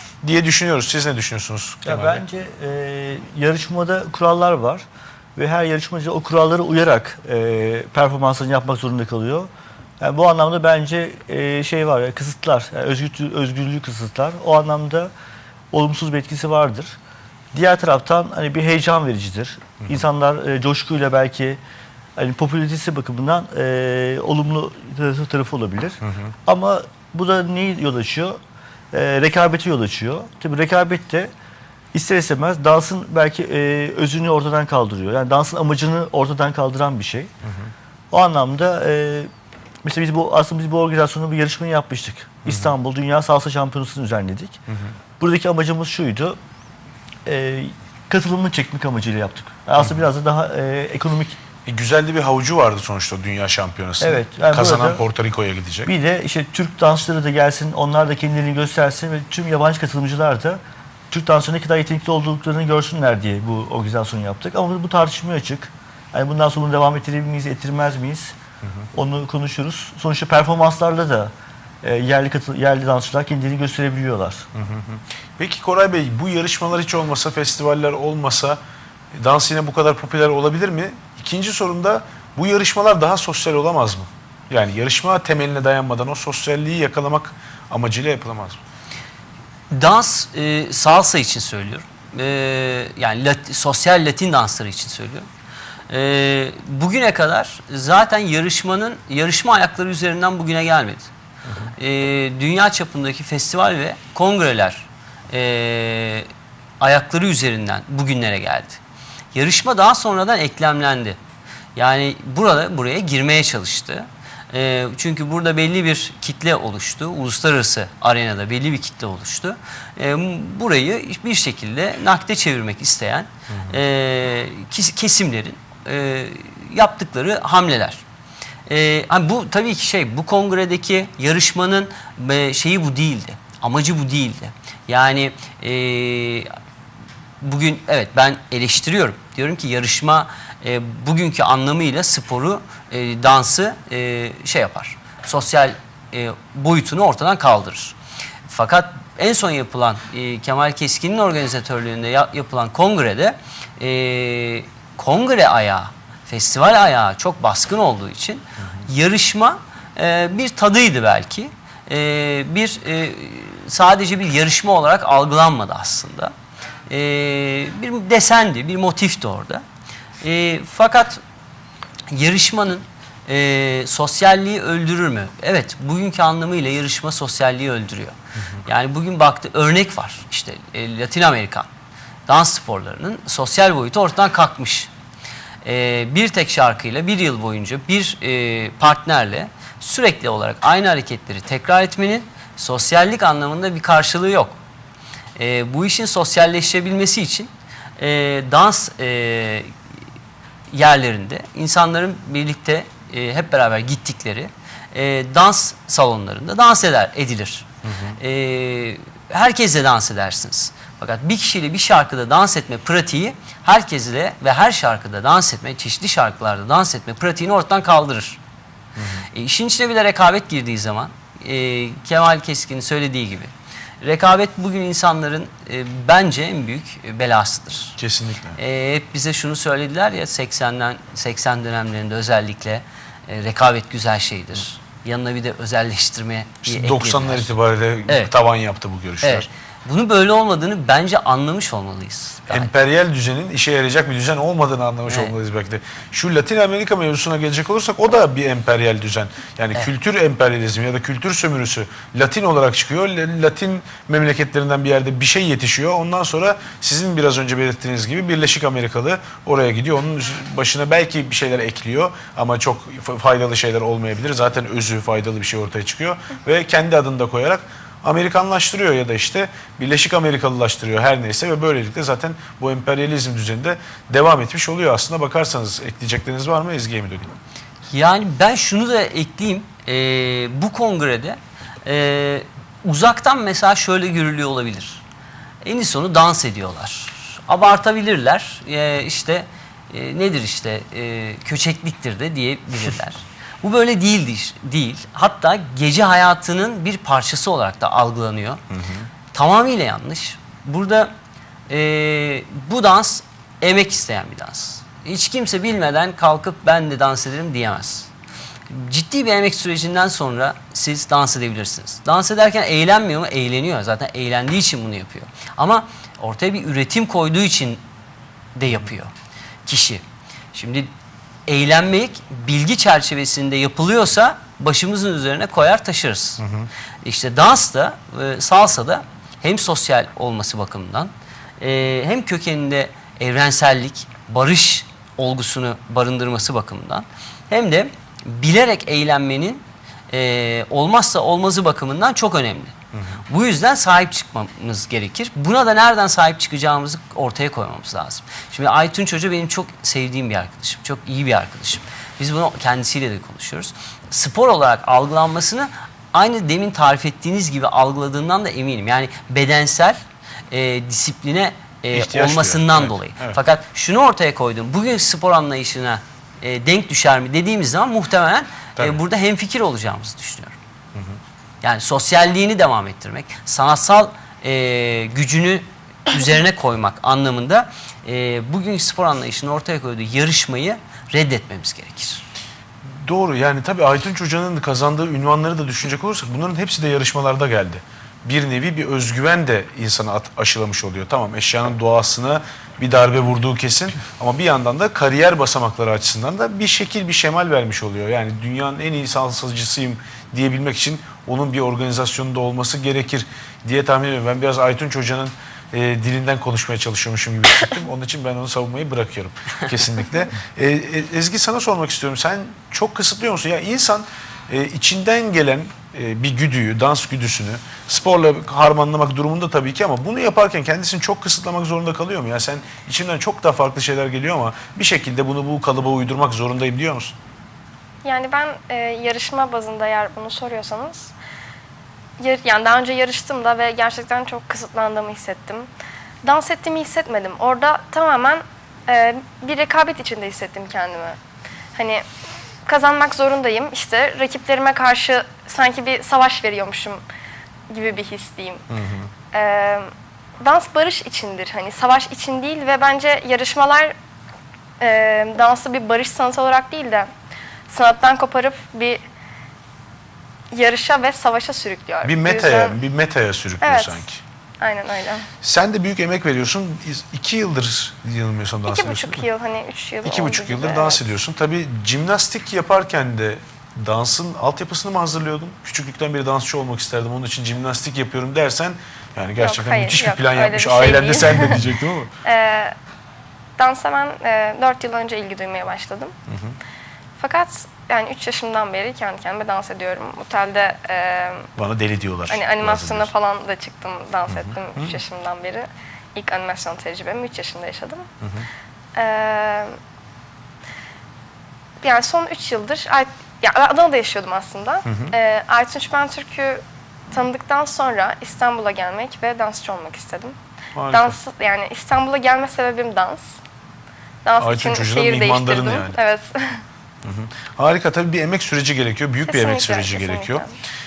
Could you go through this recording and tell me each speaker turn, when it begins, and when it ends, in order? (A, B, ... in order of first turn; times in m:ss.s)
0:00.2-0:02.2 A
0:01.8-0:04.8 B
0:05.4-0:09.5 B
0:10.0-0:15.1 B
0:15.7-0:17.0 B
0:17.5-0:21.6 B
0:22.2-0:28.4 B
0:28.9-0:31.3 B
0:31.9-0:37.3 B
0:38.1-0:39.3 B
0:39.8-0:44.6 B
0:45.2-0:46.4 B
0:47.3-0:51.4 B
0:51.7-0:55.9 A
0:54.0-0:55.0 B
0:55.9-1:08.4 B
1:08.9-1:14.5 B
1:14.6-1:18.6 A
1:19.1-1:28.6 A
1:29.7-1:35.3 C
1:35.9-1:41.1 C
1:41.8-1:46.3 C
1:46.8-1:48.8 C
1:49.3-1:51.2 C
1:51.8-2:08.0 C
2:08.7-2:16.5 C
2:17.4-2:28.0 C
2:28.5-2:46.3 C
2:46.9-2:49.6 C
2:50.2-2:51.2 C
2:52.1-3:01.7 C
3:02.3-3:04.9 C
3:05.6-3:14.6 C
3:15.4-3:19.7 C
3:20.7-3:27.7 C
3:27.8-3:28.2 A
3:28.2-3:38.4 C
3:39.0-3:39.2 A
3:39.3-3:48.0 C
3:48.0-3:48.6 A
3:48.6-3:57.6 C
3:56.7-3:59.5 A
3:59.2-4:02.7 C
4:02.5-4:37.4 A
4:05.1-4:05.3 C
4:37.9-4:45.0 C
4:45.6-4:58.6 C
4:58.7-4:59.1 A
4:59.3-5:01.1 C
5:01.7-5:08.1 C
5:08.7-5:17.8 C
5:18.6-5:19.1 C
5:19.7-5:20.0 C
5:20.5-5:20.9 C
5:21.5-5:26.4 C
5:26.4-5:26.7 A
5:27.0-5:42.7 C
5:42.9-5:43.2 A
5:43.3-6:00.0 C
6:00.5-6:10.6 C
6:01.9-6:03.4 A
6:11.6-6:22.2 C
6:23.0-7:07.2 A
7:08.0-7:11.1 D
7:12.2-7:15.7 D
7:16.2-7:21.2 D
7:21.8-7:22.0 D
7:22.7-7:27.0 D
7:27.7-7:28.6 D
7:28.7-7:29.1 A
7:29.3-7:29.9 D
7:30.4-7:33.9 D
7:34.8-7:37.1 D
7:37.7-7:39.0 D
7:40.5-7:42.8 D
7:42.0-7:44.2 A
7:43.6-7:44.0 D
7:44.6-7:45.3 D
7:45.4-7:49.3 A
7:48.7-7:51.1 D
7:50.0-8:02.1 A
7:59.4-8:01.6 D
8:02.2-8:02.7 D
8:03.6-8:06.1 D
8:06.3-8:06.6 A
8:07.2-8:11.5 D
8:11.6-8:13.1 A
8:12.3-8:18.0 D
8:14.3-8:15.0 A
8:19.0-8:19.7 D
8:21.8-8:30.4 D
8:24.9-8:25.1 A
8:30.8-8:31.2 A
8:30.9-8:33.4 D
8:34.2-8:36.6 D
8:34.4-8:36.0 A
8:37.0-8:40.4 A
8:39.3-8:40.5 D